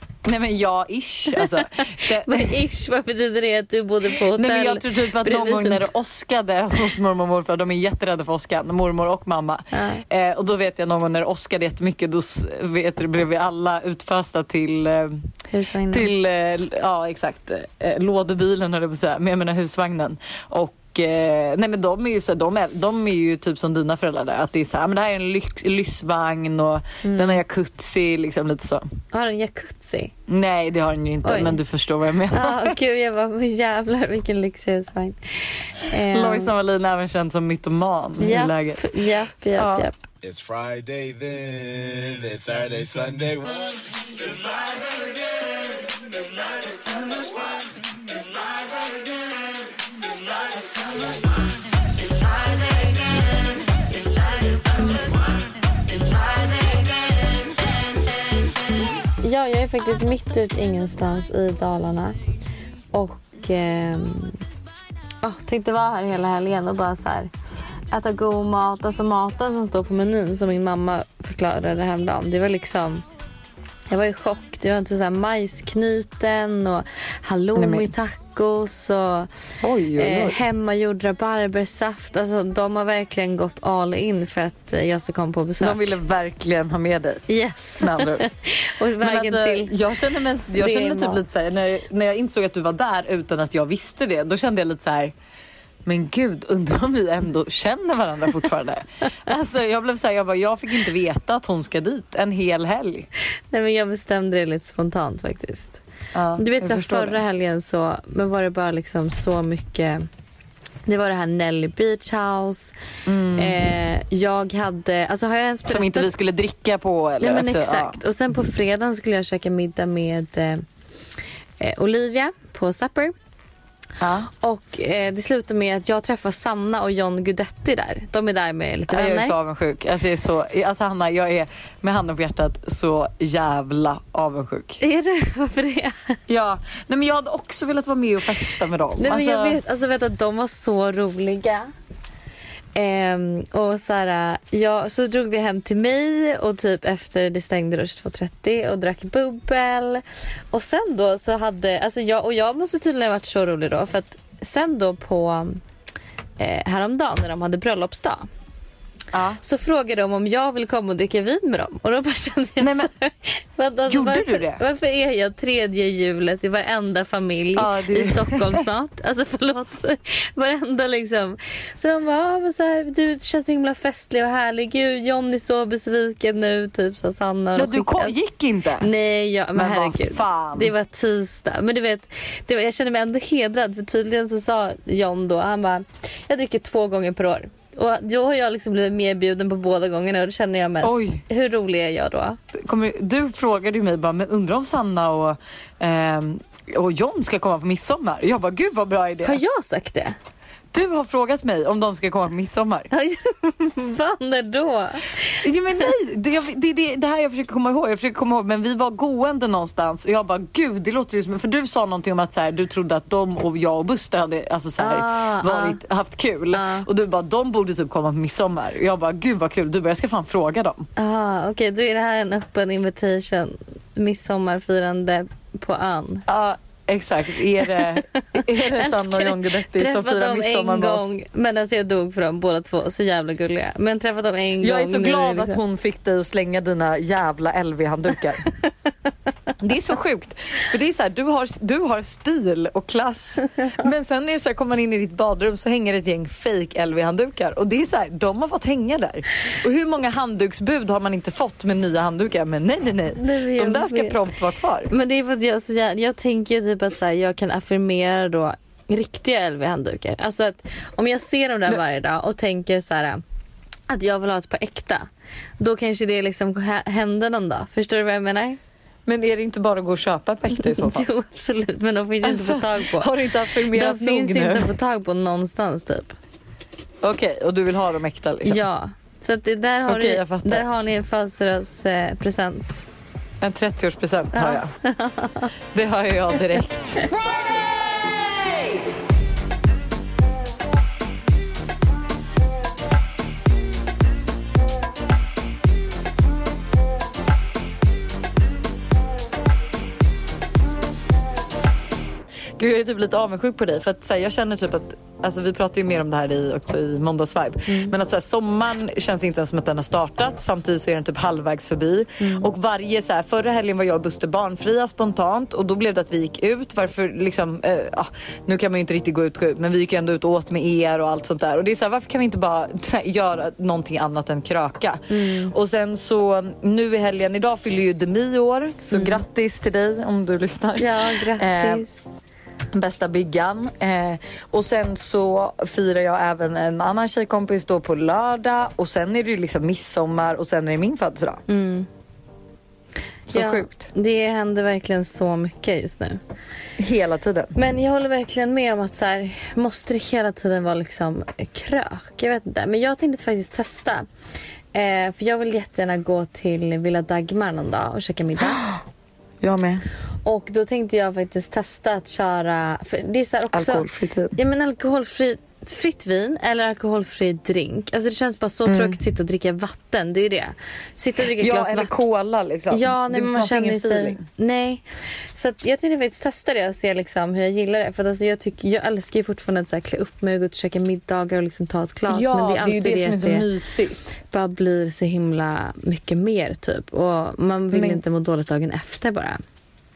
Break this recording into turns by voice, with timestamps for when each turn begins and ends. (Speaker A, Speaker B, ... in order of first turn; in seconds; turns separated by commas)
Speaker A: 0.2-2.5, Speaker B: 1.3-5.9, Speaker A: 4.4-15.3, Speaker B: 9.7-10.0, Speaker B: 15.5-16.1, Speaker A: 15.9-28.9, Speaker B: 27.0-27.4, Speaker B: 29.1-30.1, Speaker A: 30.3-32.7, Speaker B: 31.2-31.6, Speaker B: 32.3-36.5, Speaker A: 36.1-38.8, Speaker B: 38.2-40.0, Speaker A: 39.6-39.9, Speaker C: 40.2-43.8, Speaker B: 52.3-55.2, Speaker B: 55.9-57.4, Speaker B: 59.1-62.2, Speaker B: 62.9-64.4, Speaker B: 65.2-67.3, Speaker B: 67.9-73.0, Speaker B: 73.9-79.3, Speaker A: 77.6-77.9, Speaker A: 79.6-80.4, Speaker B: 80.0-86.0, Speaker A: 85.6-87.3, Speaker B: 87.3-89.7, Speaker A: 87.8-88.2, Speaker A: 89.0-95.1, Speaker B: 90.5-91.2, Speaker A: 95.9-103.1, Speaker B: 103.5-105.8, Speaker A: 106.1-107.2, Speaker B: 106.4-110.1, Speaker B: 110.9-112.8, Speaker A: 113.1-113.5, Speaker B: 113.4-116.1, Speaker A: 115.7-118.0, Speaker B: 117.2-120.6, Speaker B: 121.6-123.2, Speaker A: 124.0-124.3, Speaker B: 124.4-129.4, Speaker A: 128.9-134.8, Speaker B: 134.8-136.2, Speaker A: 136.3-139.6, Speaker B: 139.0-141.7, Speaker B: 142.8-155.6, Speaker B: 156.4-158.2, Speaker A: 159.1-159.4, Speaker B: 159.4-178.1, Speaker A: 162.6-162.9, Speaker A: 163.9-164.6, Speaker A: 167.6-168.7, Speaker A: 177.6-178.9, Speaker B: 178.8-192.4, Speaker A: 179.6-180.7, Speaker A: 190.8-191.2, Speaker A: 192.5-199.4, Speaker B: 199.2-200.2, Speaker A: 200.7-202.9, Speaker B: 202.9-205.9, Speaker A: 205.4-220.9, Speaker B: 214.8-215.8, Speaker B: 216.5-216.9, Speaker B: 221.0-226.2, Speaker A: 226.3-231.1, Speaker B: 227.6-235.6, Speaker A: 234.6-238.4, Speaker A: 239.6-254.9, Speaker B: 253.2-254.2, Speaker B: 254.9-263.2, Speaker B: 263.9-265.1, Speaker B: 265.6-268.6, Speaker A: 269.1-271.1, Speaker B: 270.6-273.1, Speaker A: 272.2-274.7, Speaker B: 273.7-276.2, Speaker A: 277.0-278.6, Speaker B: 278.4-282.8, Speaker A: 279.9-280.6, Speaker A: 283.4-284.7, Speaker B: 284.3-285.5, Speaker A: 285.7-287.1, Speaker B: 287.0-287.3, Speaker A: 302.6-331.9, Speaker B: 307.7-307.9, Speaker B: 312.2-312.5, Speaker B: 325.1-325.5, Speaker B: 328.9-329.2, Speaker B: 330.8-331.9, Speaker A: 332.8-341.4, Speaker B: 341.5-341.9, Speaker A: 343.3-343.9, Speaker B: 343.3-346.2, Speaker A: 346.8-347.6, Speaker B: 347.6-354.1, Speaker B: 354.7-358.6, Speaker A: 358.5-358.8, Speaker A: 359.4-359.9, Speaker B: 360.2-371.9, Speaker A: 363.5-364.4, Speaker A: 368.7-369.0, Speaker A: 371.4-374.2, Speaker B: 372.7-374.8, Speaker B: 375.3-383.5, Speaker A: 382.1-384.1, Speaker B: 384.3-389.4, Speaker A: 387.7-388.0